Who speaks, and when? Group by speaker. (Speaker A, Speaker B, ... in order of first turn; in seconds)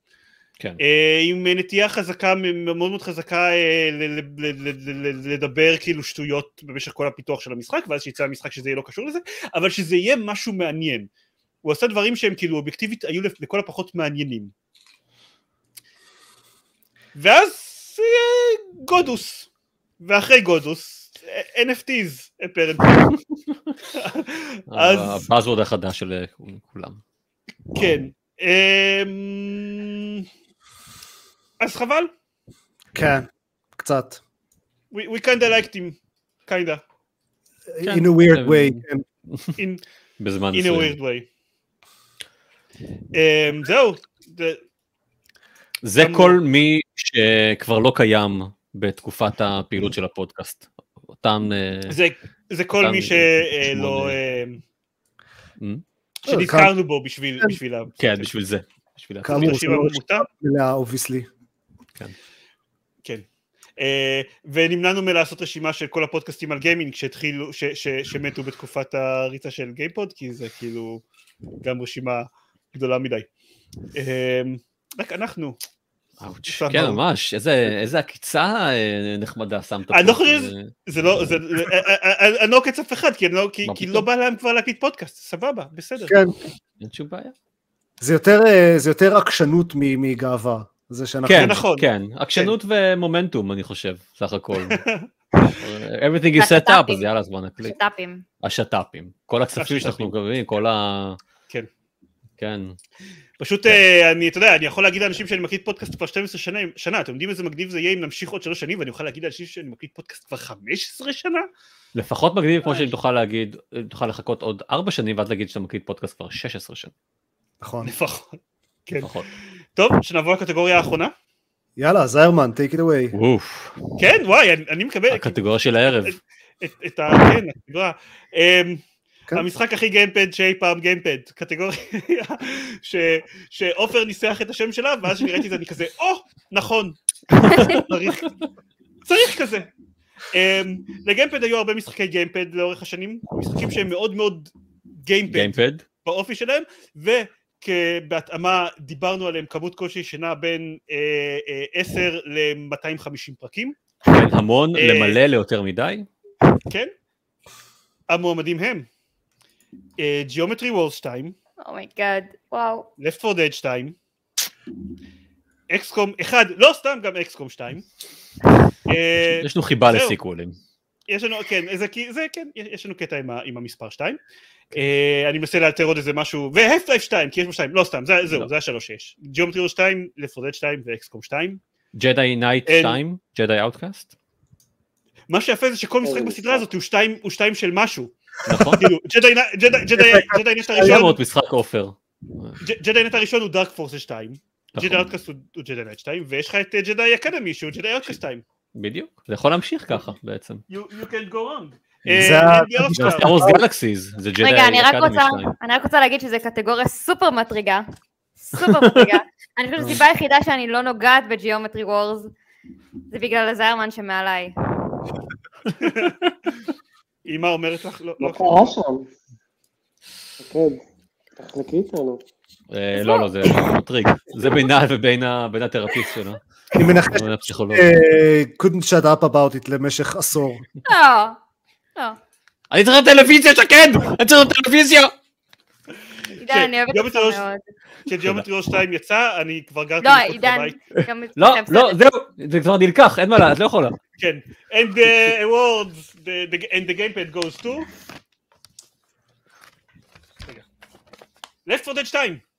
Speaker A: 0.8-11.1, 11.6-14.5, 17.2-19.5, 20.0-23.1, 24.0-25.2, 27.8-30.3, 31.6-32.1, 34.9-36.0, 36.5-36.8, 39.6-39.8, 40.5-41.3, 43.1-44.6, 46.0-46.4, 51.9-54.6, 56.3-58.3, 59.3-60.3, 63.8-71.0, 71.6-73.3, 73.9-75.6, 76.5-77.0, 79.9-86.2, 91.3-92.5, 94.7-95.6, 99.6-100.1, 103.4-111.5, 117.8-119.1, 119.8-121.1, 124.0-128.8, 129.3-138.3, 139.1-139.7, 140.3-144.5, 145.1-153.8, 154.8-155.2, 158.1-158.9, 160.0-161.4, 163.0-163.9, 165.7-167.8, 168.9-170.2, 171.1-174.2, 174.7-181.6, 182.7-183.0, 185.3-188.1, 188.8-191.2, 192.6-198.4, 200.7-203.3, 215.7-216.2, 217.3-218.8, 236.5-237.4, 238.1-240.8, 244.2-247.9, 251.7-252.4
Speaker B: 24.7-27.0, 37.8-38.8, 40.2-41.0, 45.8-52.0, 52.8-54.2, 58.0-59.7, 76.2-80.7, 83.7-84.0, 86.8-87.3, 91.3-94.8, 95.6-97.8, 98.4-101.2, 102.4-102.8, 112.0-116.9, 119.0-119.3, 123.1-123.8, 125.1-126.2, 137.4-137.8, 145.3-145.8, 154.1-156.1, 169.2-170.6, 181.9-184.1, 188.5-188.9, 190.8-192.6, 194.7-195.1, 198.8-200.6, 202.1-202.3, 203.0-205.5, 208.6-209.1, 222.7-226.4, 227.1-227.9, 232.7-235.1, 241.0-244.0
Speaker C: 32.9-34.2, 37.7-39.1, 56.3-56.7, 59.2-61.3, 86.1-86.3, 88.0-91.6, 117.6-117.9, 121.8-123.1, 190.0-191.0, 202.1-203.6, 226.8-230.6
Speaker D: 96.4-97.1, 97.6-98.2, 161.6-162.9, 204.4-207.8, 208.4-212.3, 213.1-214.5, 223.0-223.3, 230.8-231.4, 236.4-237.6, 240.0-242.0
Speaker E: 186.0-186.7, 218.2-219.1, 220.4-220.8, 221.4-222.2